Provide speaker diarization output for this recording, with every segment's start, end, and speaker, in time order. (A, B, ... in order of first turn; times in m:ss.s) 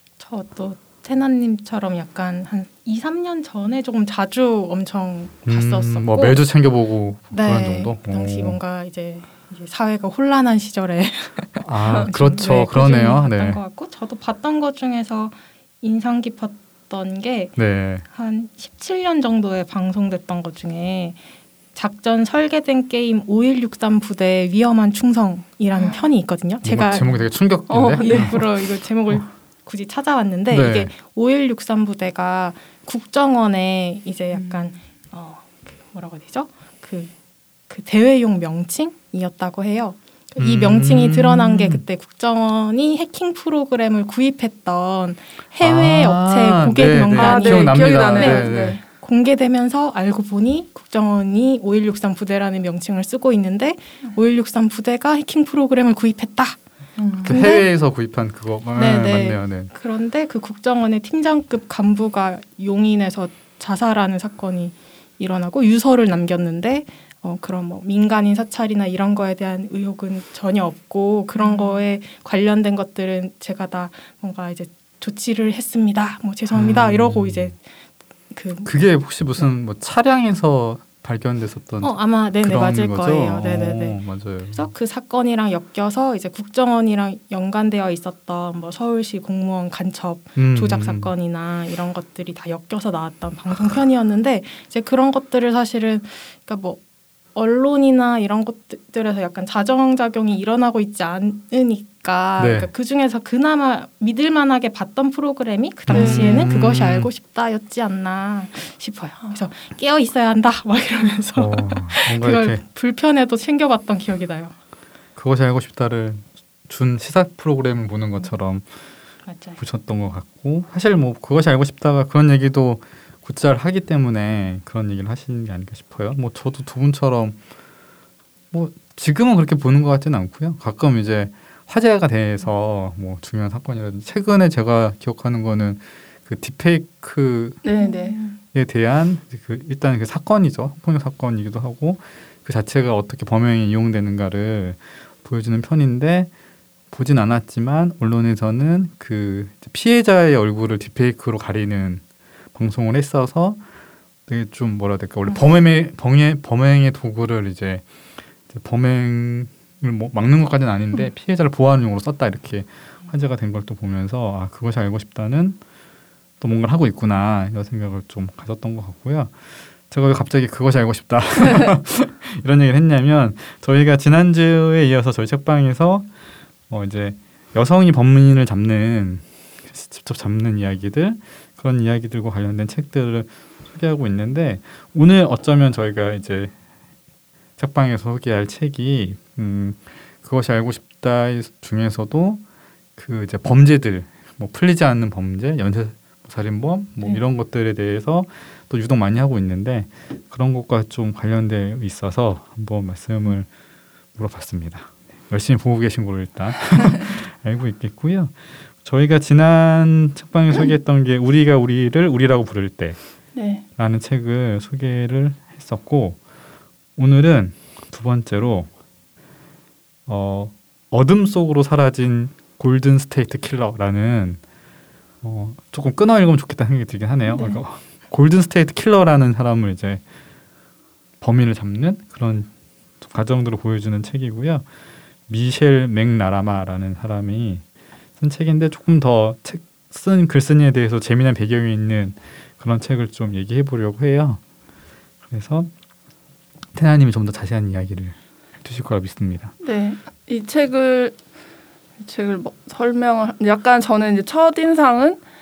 0:00.2-0:06.4 A
0:05.4-0:08.6 B
0:07.3-0:21.2 A
0:11.6-0:13.6 B
0:17.6-0:18.0 B
0:21.7-0:27.1 A
0:26.6-0:28.5 B
0:27.7-0:28.4 C
0:28.0-0:37.1 A
0:30.5-0:30.9 B
0:34.3-0:34.7 C
0:37.7-0:57.7 A
0:40.4-0:41.8 B
0:45.6-0:48.8 B
0:47.2-0:48.8 C
0:57.0-0:57.4 C
0:57.2-0:59.7 B
0:58.8-1:17.6 A
1:11.4-1:11.7 C
1:16.5-1:17.5 B
1:18.3-1:18.7 A
1:18.6-1:24.7 B
1:21.8-1:36.8 A
1:30.4-1:31.1 B
1:37.3-1:54.5 A
1:42.4-1:42.7 B
1:45.9-1:47.1 B
1:45.9-1:46.5 C
1:51.4-1:52.6 B
1:55.2-1:58.6 B
1:59.3-1:59.6 A
1:59.6-2:07.4 B
2:08.5-2:17.6 B
2:17.6-2:18.2 C
2:17.8-2:18.3 A
2:18.5-2:26.3 B
2:26.9-2:32.0 B
2:32.5-2:33.6 B
2:34.3-2:37.8 B
2:38.5-2:45.6 B
2:46.4-2:49.4 B
2:49.9-2:56.1 B
2:56.7-3:06.5 B
3:07.6-3:12.4 B
3:13.0-3:23.5 B
3:24.1-3:33.0 B
3:33.3-3:33.6 C
3:33.8-3:36.2 B
3:37.0-3:38.7 B
3:40.1-3:44.4 B
3:45.2-3:50.0 B
3:51.2-3:52.5 B
3:53.0-3:54.6 B
3:55.3-3:57.6 B
3:58.2-4:04.4 B
4:05.2-4:05.7 B
4:06.7-4:09.5 B
4:09.6-4:11.2 C
4:12.0-4:15.2 C